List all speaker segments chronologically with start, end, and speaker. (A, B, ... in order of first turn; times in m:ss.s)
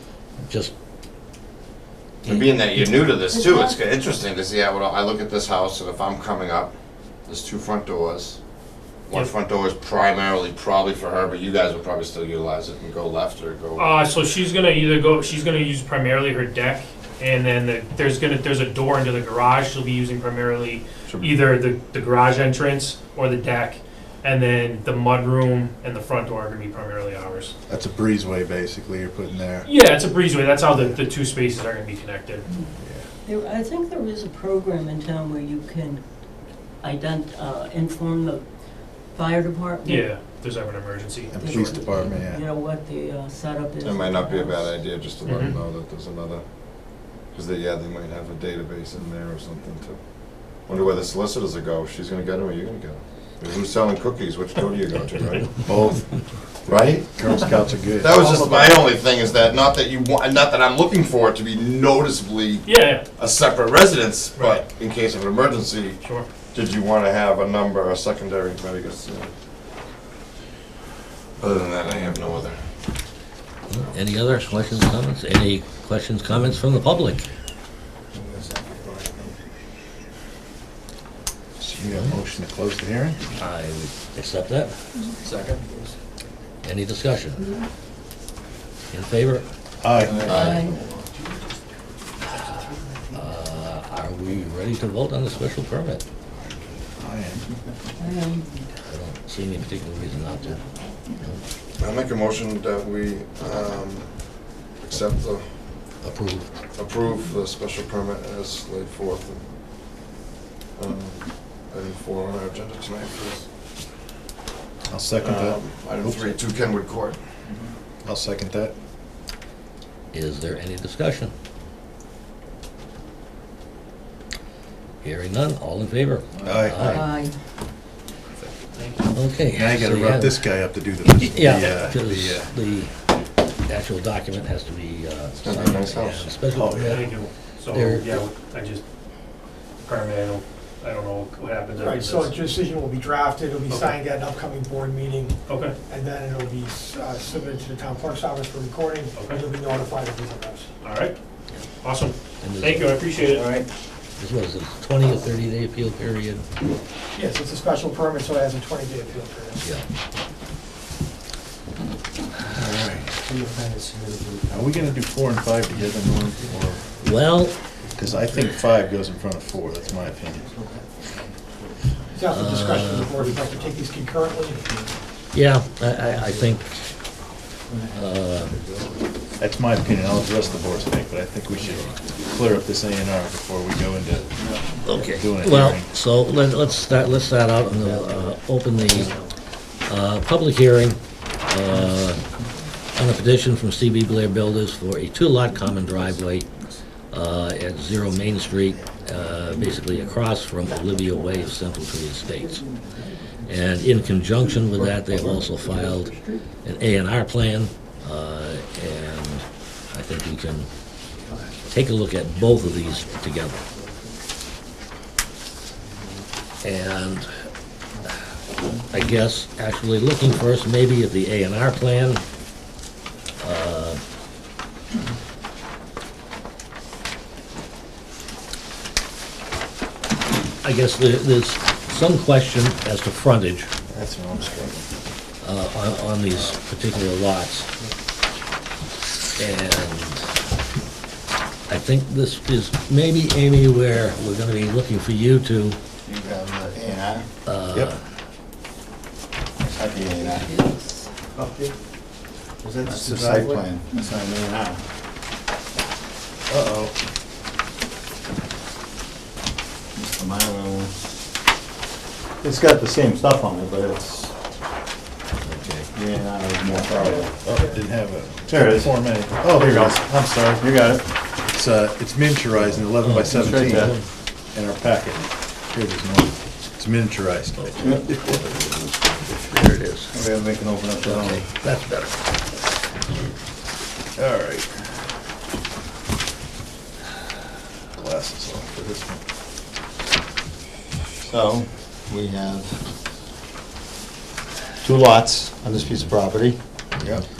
0:00.4-0:00.7 A
0:02.2-0:06.7 B
0:03.2-0:03.8 C
0:07.2-0:08.4 B
0:09.1-0:14.0 B
0:13.8-0:27.6 D
0:21.1-0:21.4 B
0:27.7-0:29.7 E
0:29.6-0:32.5 D
0:30.7-0:31.0 E
0:32.8-0:33.1 E
0:33.3-0:36.0 C
0:36.8-0:38.4 C
0:39.1-0:40.2 C
0:39.8-0:41.8 D
0:41.3-0:42.4 E
0:41.4-0:44.8 C
0:41.9-0:42.1 A
0:43.8-0:55.6 B
0:45.2-0:45.6 D
0:55.6-0:58.8 E
0:56.7-0:57.1 B
0:58.0-1:09.3 B
1:02.6-1:03.1 D
1:04.4-1:04.7 D
1:06.0-1:06.3 D
1:11.4-1:12.6 B
1:13.7-1:17.3 A
1:13.7-1:14.0 B
1:18.1-1:19.5 F
1:21.6-1:23.2 E
1:21.8-1:22.2 A
1:23.4-1:24.7 A
1:25.2-1:25.9 F
1:26.6-1:27.5 A
1:27.4-1:27.6 C
1:28.9-1:29.4 A
1:29.8-1:30.6 E
1:30.0-1:31.0 F
1:30.2-1:30.7 B
1:30.4-1:30.8 C
1:32.7-1:33.0 F
1:33.1-1:36.0 A
1:37.0-1:37.5 E
1:38.0-1:38.5 C
1:38.8-1:40.6 A
1:41.8-1:45.6 B
1:46.0-1:46.5 A
1:46.8-1:49.6 B
1:50.8-1:53.5 B
1:54.9-1:56.4 E
1:55.2-1:57.2 B
1:58.0-1:58.8 E
2:00.1-2:01.3 A
2:05.0-2:07.1 A
2:06.4-2:07.0 E
2:06.8-2:07.4 C
2:08.7-2:09.1 D
2:09.1-2:12.9 A
2:09.5-2:12.5 E
2:13.6-2:17.2 A
2:15.4-2:16.4 B
2:16.5-2:17.3 E
2:16.8-2:18.8 D
2:17.7-2:18.3 A
2:19.8-2:22.4 D
2:21.8-2:30.7 G
2:23.7-2:24.0 D
2:25.5-2:25.8 D
2:29.2-2:29.4 D
2:30.8-2:31.2 D
2:31.8-2:33.5 D
2:32.4-2:33.0 A
2:33.2-2:33.7 F
2:34.2-2:36.5 A
2:37.2-2:39.7 G
2:42.5-2:43.2 E
2:43.2-2:44.9 F
2:44.5-2:46.8 E
2:45.8-2:46.6 F
2:47.0-2:47.6 A
2:47.8-2:48.5 F
2:48.0-2:50.5 E
2:49.8-2:52.2 F
2:52.1-2:54.7 G
2:52.3-2:53.1 A
2:53.1-2:55.0 F
2:55.3-2:56.7 A
2:56.1-2:56.6 F
2:57.7-2:59.1 F
2:57.9-2:58.6 A
2:59.4-3:05.9 E
3:00.2-3:01.0 F
3:04.4-3:05.0 F
3:04.8-3:09.2 A
3:07.7-3:09.3 F
3:09.9-3:12.2 A
3:12.9-3:16.5 A
3:17.1-3:22.7 A
3:18.7-3:20.0 F
3:20.9-3:21.4 F
3:22.6-3:23.4 F
3:23.5-3:30.7 A
3:31.2-3:31.6 F
3:31.7-3:33.6 A
3:32.8-3:34.1 F
3:35.9-3:36.2 F
3:36.6-3:37.3 A
3:38.8-3:42.2 A
3:43.4-3:44.0 A
3:50.6-3:53.7 A
3:53.9-3:54.8 E
3:55.4-3:57.7 A
3:59.4-4:00.3 A
4:01.7-4:05.8 A
4:06.0-4:07.3 F
4:07.5-4:08.0 A
4:09.6-4:10.5 F
4:10.1-4:11.2 C
4:11.4-4:11.7 F
4:12.6-4:14.8 F
4:12.8-4:13.7 E
4:16.5-4:16.9 E
4:20.0-4:21.0 F
4:22.4-4:24.3 F
4:25.4-4:25.9 A
4:25.9-4:27.3 F
4:26.8-4:28.0 G
4:26.9-4:30.7 E
4:28.5-4:31.1 F
4:31.4-4:38.0 E
4:32.7-4:34.1 A
4:33.2-4:33.9 F
4:37.6-4:40.1 A
4:37.8-4:38.2 F
4:40.1-4:41.5 F
4:41.0-4:42.4 A
4:44.2-4:44.8 E
4:48.0-4:49.2 E
4:51.2-4:52.8 F
4:54.8-4:56.6 F
4:57.0-4:57.2 E